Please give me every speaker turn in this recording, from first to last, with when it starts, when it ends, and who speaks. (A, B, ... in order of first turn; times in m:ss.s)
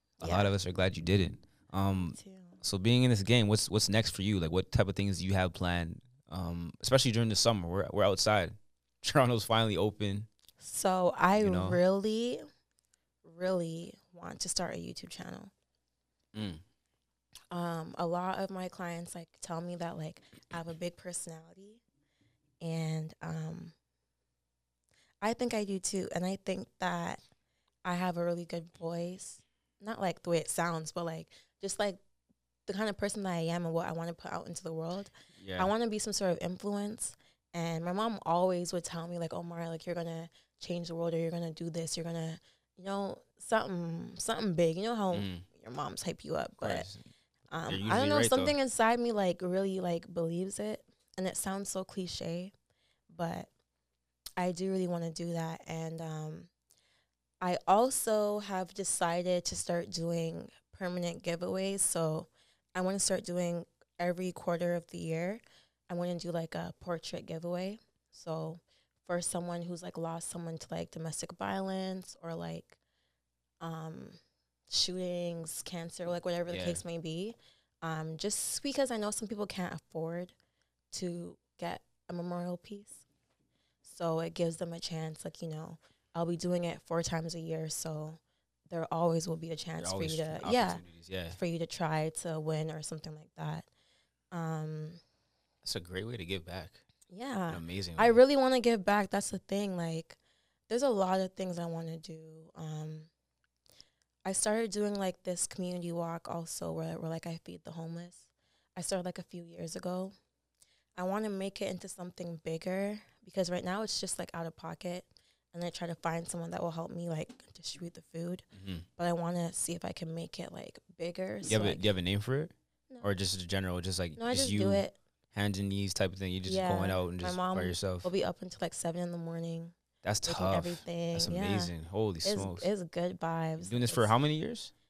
0:00.2-0:00.5 A
0:00.2-0:10.3 B
0:02.1-0:02.6 A
0:10.6-0:12.4 A
0:11.4-0:11.8 B
0:13.2-0:15.5 A
0:16.3-0:16.6 B
0:17.5-0:21.8 A
0:22.6-0:23.7 A
0:25.2-0:27.2 A
0:27.8-0:32.0 A
0:32.7-0:46.8 A
0:35.4-0:35.7 B
0:45.1-0:45.4 B
0:46.6-0:47.0 B
0:47.5-0:52.5 A
0:47.7-0:48.5 B
0:53.1-0:53.5 A
0:54.4-0:56.5 A
0:57.4-1:12.8 A
1:13.6-1:20.3 A
1:16.5-1:16.8 B
1:20.9-1:23.0 A
1:23.8-1:33.7 A
1:29.8-1:31.4 B
1:34.3-1:35.0 A
1:35.6-1:36.8 B
1:37.1-1:40.2 A
1:37.5-1:38.2 B
1:40.7-1:43.1 A
1:44.2-1:50.1 A
1:51.0-1:58.4 A
1:58.5-1:58.8 B
1:59.0-2:01.8 A
2:01.4-2:08.1 B
2:02.9-2:03.2 A
2:04.2-2:05.0 A
2:06.4-2:09.7 A
2:10.0-2:12.7 B
2:10.2-2:11.7 A
2:12.2-2:14.1 A
2:13.6-2:14.7 B